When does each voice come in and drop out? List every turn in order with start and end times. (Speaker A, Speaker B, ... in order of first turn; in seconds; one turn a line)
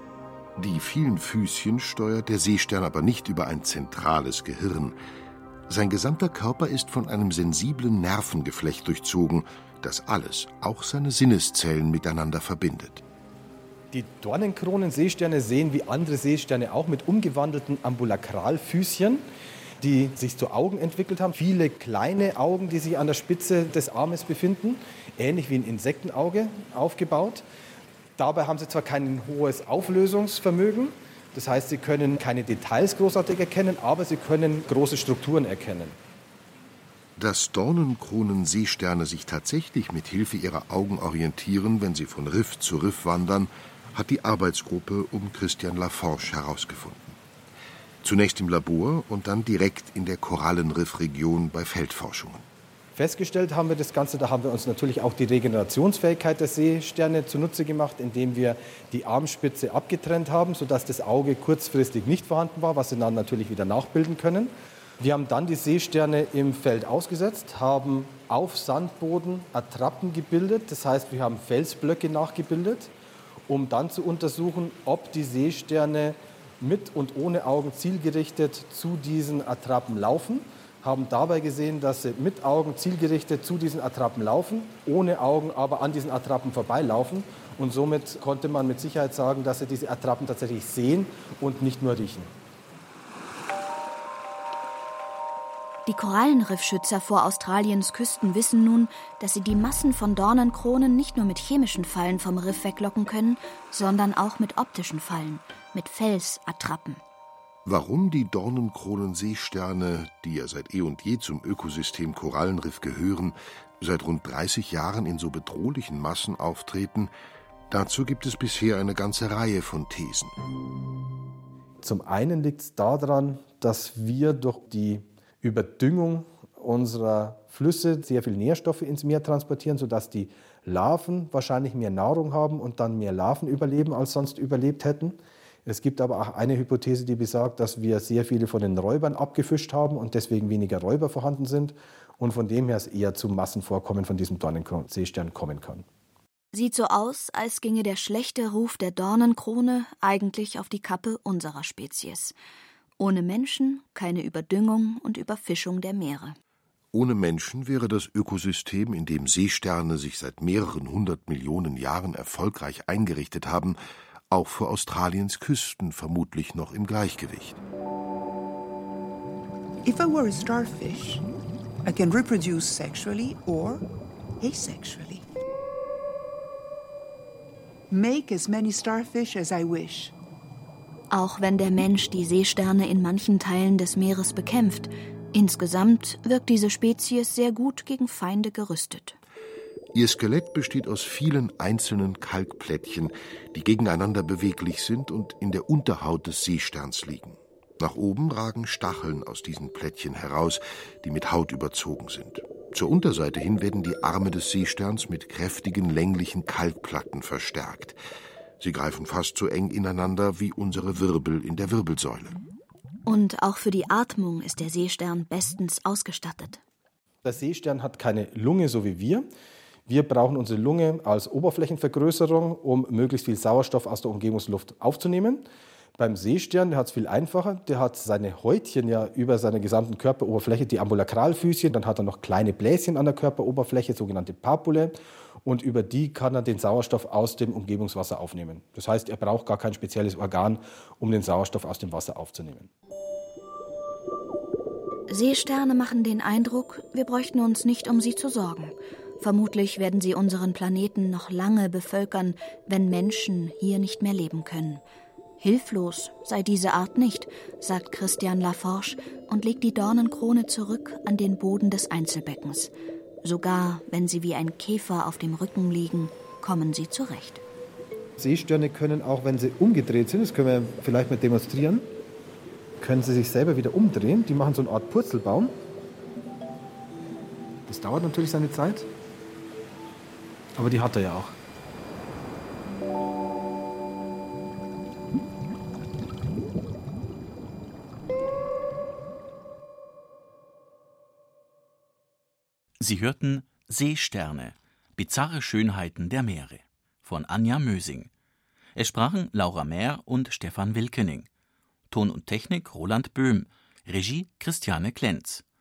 Speaker A: 0.6-5.0
Speaker A: 5.7-13.0
Speaker B: 13.9-19.2
Speaker B: 19.8-27.4
Speaker B: 28.2-36.0
Speaker A: 37.2-47.2
Speaker A: 48.0-52.5
Speaker B: 53.0-72.9
Speaker B: 73.5-92.3
Speaker C: 95.9-107.0
Speaker A: 107.7-117.1
Speaker A: 117.7-120.3
Speaker B: 121.8-145.8
Speaker C: 146.5-152.3
Speaker C: 153.0-156.4
Speaker A: 156.9-163.8
Speaker A: 164.3-167.6
Speaker D: 169.8-171.2
Speaker D: 171.8-173.9
Speaker D: 174.4-175.2
Speaker D: 177.9-180.2
Speaker C: 181.1-189.2
Speaker A: 189.9-208.0
Speaker A: 208.6-212.4
Speaker C: 213.1-216.6
Speaker B: 217.2-219.2
Speaker B: 219.9-225.4
Speaker B: 226.0-242.7
Speaker C: 245.1-254.8
Speaker C: 255.4-262.7
Speaker C: 263.2-267.4
Speaker B: 268.2-271.9
Speaker B: 272.8-275.6
Speaker B: 277.7-278.9
Speaker B: 280.6-281.4
Speaker E: 292.8-298.1
Speaker E: 298.8-301.3
Speaker E: 301.9-305.4